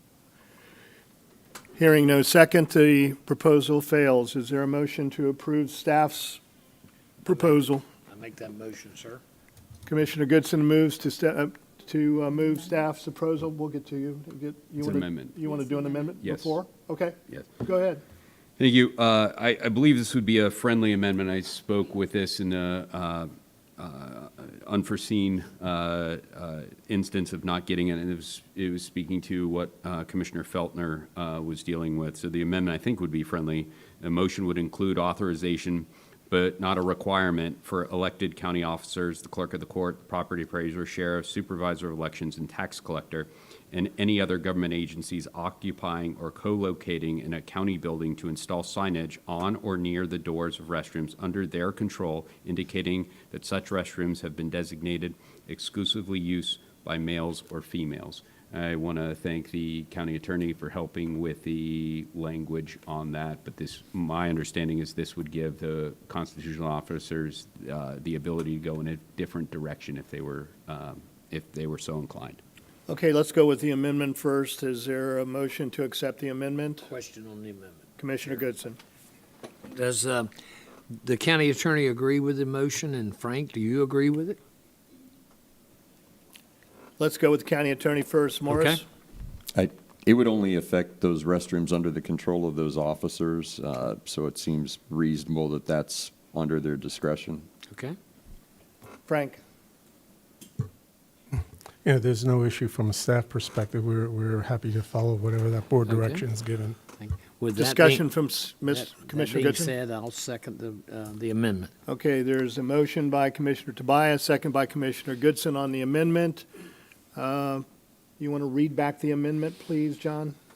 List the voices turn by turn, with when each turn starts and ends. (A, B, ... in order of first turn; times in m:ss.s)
0:01.8-0:06.4 A
0:07.2-0:07.8 A
0:08.1-0:09.2 B
0:09.9-0:18.0 A
0:14.8-0:15.4 C
0:16.2-0:16.6 C
0:18.6-1:12.4 C
1:12.9-1:16.9 A
1:16.9-1:17.8 B
1:18.0-1:18.8 A
1:19.7-1:20.3 B
1:21.0-1:24.4 B
1:27.0-1:28.8 A
1:28.5-1:28.8 B
1:29.5-1:37.5 D
1:37.7-1:38.0 B
1:39.1-1:39.4 A
1:41.8-1:46.8 E
1:45.9-1:46.2 B
1:47.0-1:48.0 B
1:47.6-1:49.7 A
1:48.7-1:51.7 B
1:51.9-1:56.5 A
1:57.2-1:57.6 A
1:58.2-2:00.4 A